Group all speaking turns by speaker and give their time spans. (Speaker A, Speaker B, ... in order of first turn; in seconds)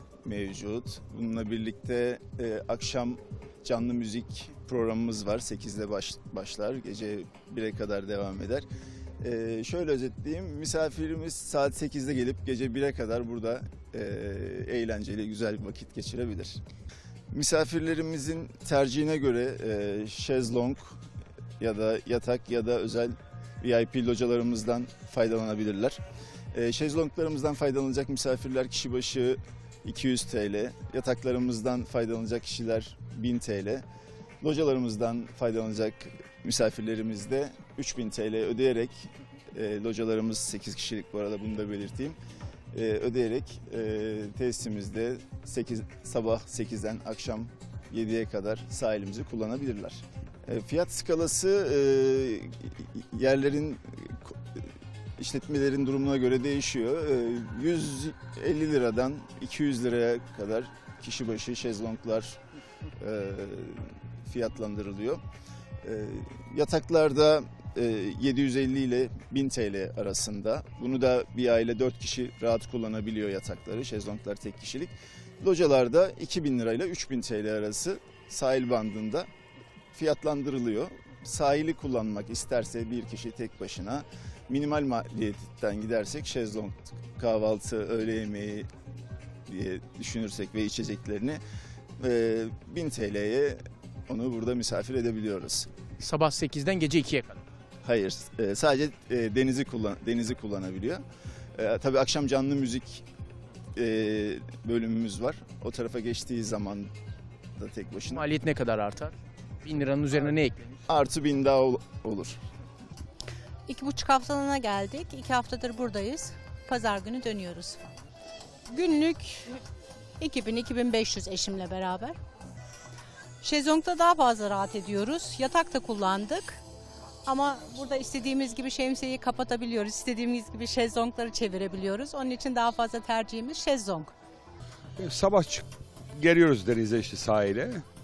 Speaker A: 0.2-8.7, 9.2-16.6, 17.3-21.0, 21.6-26.0, 26.5-33.8, 34.4-42.2, 42.7-54.6, 55.2-62.4, 63.0-65.2, 65.8-79.3, 79.9-88.7, 89.5-91.4, 92.0-95.7, 97.8-101.0, 101.5-103.0, 103.7-106.9, 107.5-108.2, 110.9-112.4
Speaker B: 96.0-97.4, 108.1-110.7
Speaker C: 113.7-117.9, 118.7-119.6, 120.2-122.2, 123.4-126.6, 127.2-134.1
Speaker D: 135.0-137.8